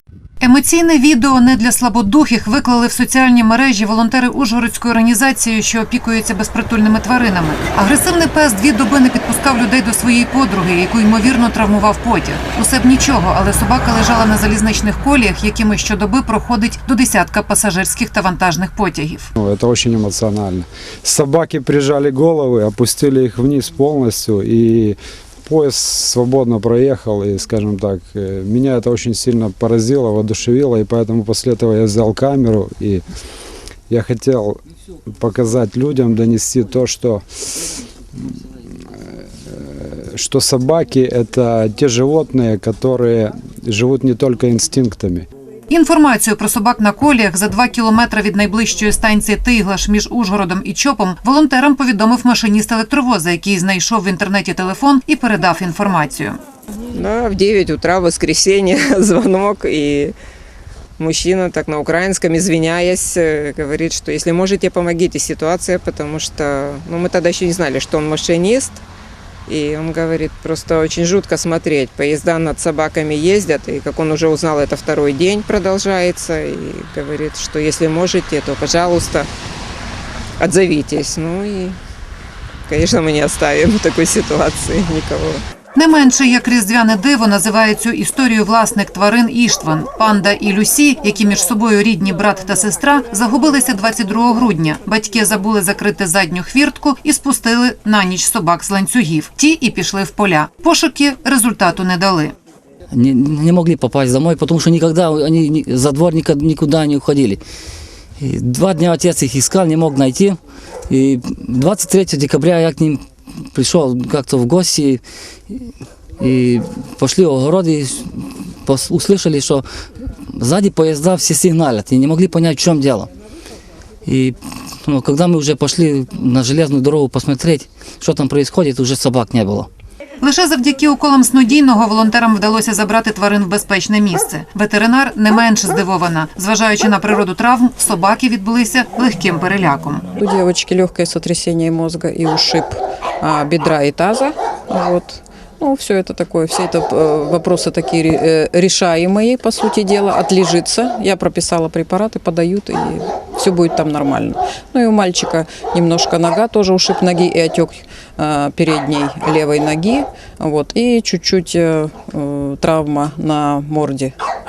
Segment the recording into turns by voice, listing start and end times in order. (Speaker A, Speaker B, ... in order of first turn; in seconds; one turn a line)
Speaker A: 0.4-19.3
Speaker B: 19.4-33.0
Speaker B: 33.9-34.6
Speaker B: 35.2-37.2
Speaker B: 39.5-45.3
Speaker A: 45.7-56.4
Speaker C: 57.0-60.1
Speaker C: 61.0-68.8
Speaker C: 69.5-79.3
Speaker C: 80.4-81.7
Speaker C: 82.7-85.4
Speaker A: 85.8-102.3
Speaker D: 102.9-107.4
Speaker D: 108.2-110.4
Speaker D: 110.9-113.0
Speaker D: 113.5-115.6
Speaker D: 116.2-119.7
Speaker D: 120.3-123.1
Speaker D: 124.1-129.7
Speaker A: 130.2-140.1
Speaker E: 140.2-164.1